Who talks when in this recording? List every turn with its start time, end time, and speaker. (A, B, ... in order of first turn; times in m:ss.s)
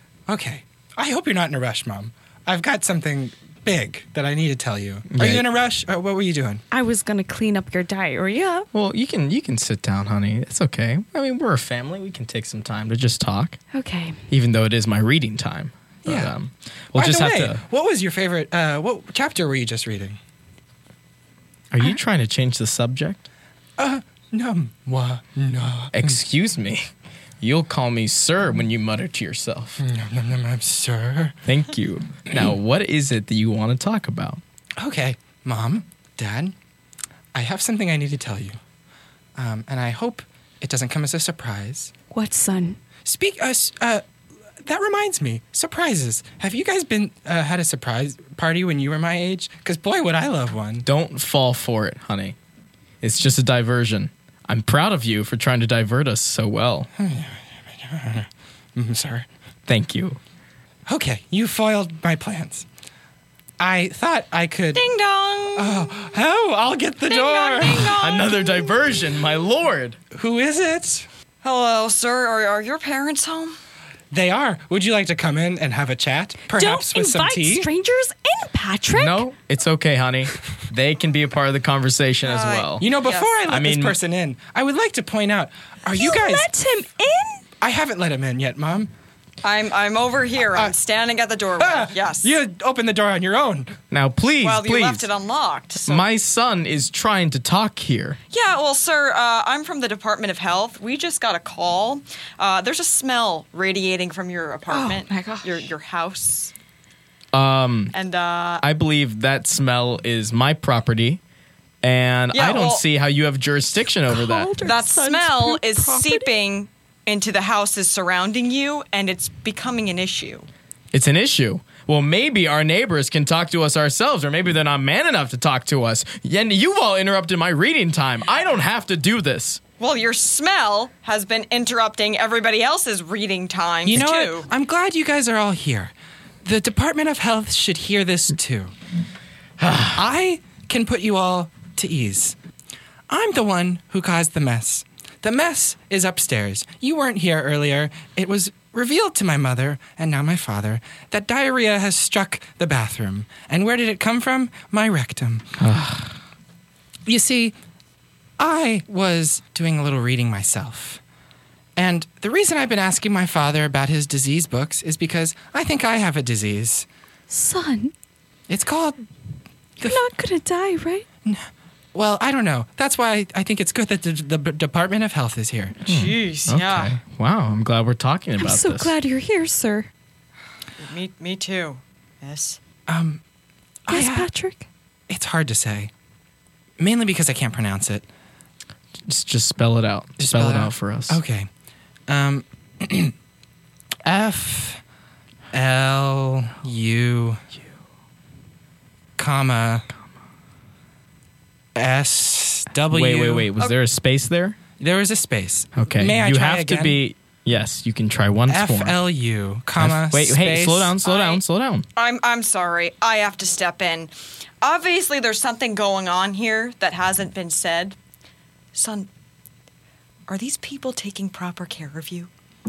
0:00.3-0:06.6 A
0:05.1-0:05.4 B
0:06.7-0:08.7 C
0:08.7-0:13.6 B
0:13.7-0:14.2 C
0:14.3-0:17.6 B
0:16.0-0:16.3 A
0:16.9-0:20.2 A
0:21.7-0:23.2 B
0:23.8-0:26.2 A
0:25.9-0:26.9 B
0:27.4-0:29.8 B
0:29.8-0:31.4 A
0:31.4-0:34.4 B
0:34.8-0:36.5 A
0:37.3-0:38.6 A
0:39.4-0:41.9 A
0:42.1-0:42.8 C
0:43.0-0:44.0 A
0:44.6-0:50.8 A
0:50.8-0:52.4 B
0:53.0-0:56.9 B
0:57.0-0:59.3 A
0:59.7-1:00.2 B
1:00.9-1:02.6 A
1:03.6-1:04.8 A
1:04.7-1:05.9 D
1:05.5-1:08.0 A
1:07.0-1:08.9 D
1:08.0-1:10.0 B
1:10.1-1:11.1 A
1:11.4-1:13.6 D
1:14.1-1:17.7 A
1:16.5-1:19.3 C
1:18.9-1:22.8 B
1:22.2-1:23.3 D
1:22.8-1:26.5 A
1:23.5-1:24.0 B
1:25.9-1:27.4 C
1:27.6-1:28.9 A
1:29.4-1:32.3 D
1:31.6-1:33.8 A
1:33.9-1:35.1 B
1:34.4-1:36.0 D
1:35.8-1:38.2 B
1:38.3-1:46.5 D
1:44.7-1:45.7 C
1:47.3-1:47.9 B
1:47.9-1:48.6 D
1:48.6-1:51.2 B
1:51.8-1:54.5 B
1:52.3-1:52.8 D
1:54.1-1:56.4 C
1:54.6-2:00.5 D
2:00.9-2:09.6 B
2:09.8-2:14.5 D
2:13.8-2:18.7 A
2:19.6-2:20.0 B
2:19.9-2:22.4 A
2:23.1-2:35.6 A
2:35.6-2:36.1 B
2:37.0-2:37.6 A
2:38.4-2:41.0 A
2:41.8-2:46.9 A
2:47.3-2:47.9 C
2:48.5-2:49.0 A
2:49.8-2:50.0 A
2:49.8-2:51.0 C
2:51.2-2:55.8 A
2:55.8-2:57.0 D
2:55.9-2:58.9 B
2:58.4-2:59.9 C
3:00.8-3:02.6 D
3:02.9-3:03.2 A
3:03.8-3:04.3 A
3:03.9-3:04.7 C
3:05.1-3:05.9 A
3:06.8-3:08.0 A
3:09.1-3:11.2 B
3:10.2-3:11.5 A
3:12.1-3:13.1 A
3:14.0-3:14.8 A
3:15.5-3:17.4 A
3:19.2-3:19.9 A
3:21.7-3:23.5 A
3:22.9-3:24.6 B
3:24.8-3:27.0 A
3:25.7-3:29.0 B
3:28.5-3:30.9 A
3:29.8-3:31.8 B
3:31.0-3:31.4 D
3:31.9-3:38.0 D
3:38.7-3:39.1 D
3:40.3-3:42.3 D